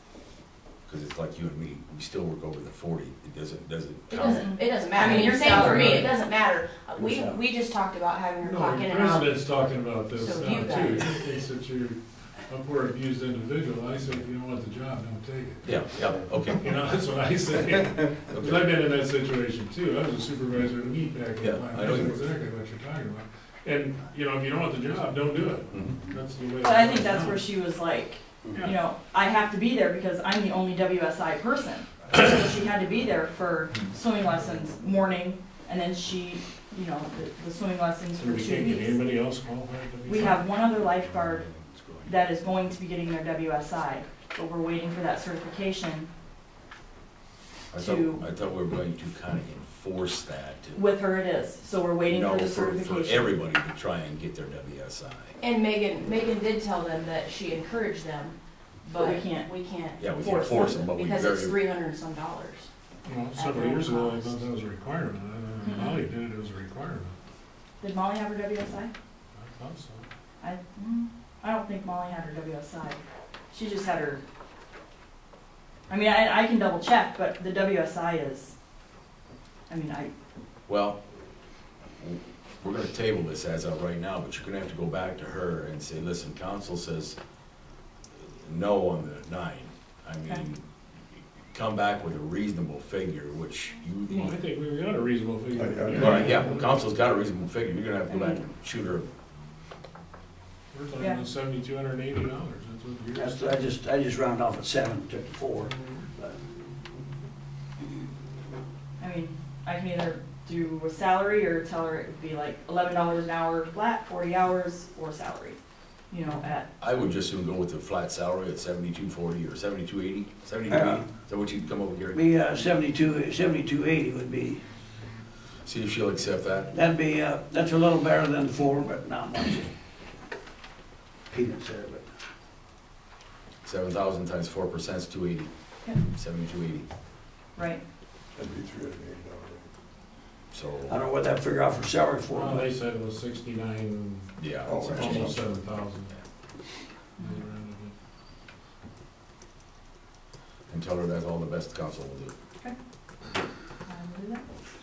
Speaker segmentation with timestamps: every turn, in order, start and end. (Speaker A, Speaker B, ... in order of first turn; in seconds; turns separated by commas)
Speaker A: 0.9-4.5, Speaker B: 4.1-9.4, Speaker C: 4.3-5.9, Speaker D: 5.4-6.1, Speaker D: 8.4-15.8, Speaker B: 10.2-11.2, Speaker A: 15.6-16.7, Speaker D: 16.6-27.5, Speaker A: 21.4-22.2, Speaker A: 25.7-26.0, Speaker C: 26.6-39.0, Speaker D: 38.2-40.4, Speaker C: 40.0-46.1, Speaker A: 47.7-50.8, Speaker C: 47.7-48.2, Speaker C: 50.7-53.3, Speaker A: 52.1-55.4, Speaker B: 55.4-62.7, Speaker C: 58.9-59.5, Speaker A: 60.0-61.6, Speaker C: 60.1-60.9, Speaker D: 63.0-67.2, Speaker B: 63.3-64.3, Speaker C: 65.6-66.0, Speaker C: 67.8-68.9, Speaker D: 69.3-70.1, Speaker C: 70.4-74.2, Speaker C: 75.9-78.5, Speaker C: 79.7-80.1, Speaker A: 80.7-81.0, Speaker A: 82.0-87.2, Speaker A: 88.2-90.6, Speaker A: 91.5-94.3, Speaker D: 94.1-96.8, Speaker E: 95.5-96.3, Speaker A: 95.9-99.0, Speaker C: 98.1-98.4, Speaker D: 100.7-103.5, Speaker F: 103.1-106.4, Speaker D: 105.8-106.0, Speaker C: 109.0-115.6, Speaker C: 116.1-116.7, Speaker A: 116.8-122.2, Speaker F: 120.7-121.1, Speaker F: 122.1-124.7, Speaker A: 125.6-126.7, Speaker F: 126.7-129.7, Speaker F: 131.3-132.1, Speaker A: 133.6-135.5, Speaker A: 136.1-136.9, Speaker C: 137.6-137.8, Speaker E: 138.3-139.7, Speaker A: 140.5-141.0, Speaker F: 140.9-142.7, Speaker D: 142.3-144.3, Speaker A: 144.4-145.4, Speaker E: 144.6-145.3, Speaker D: 144.9-146.1, Speaker C: 147.2-147.4, Speaker D: 147.2-147.9, Speaker A: 150.7-152.3, Speaker C: 153.8-154.4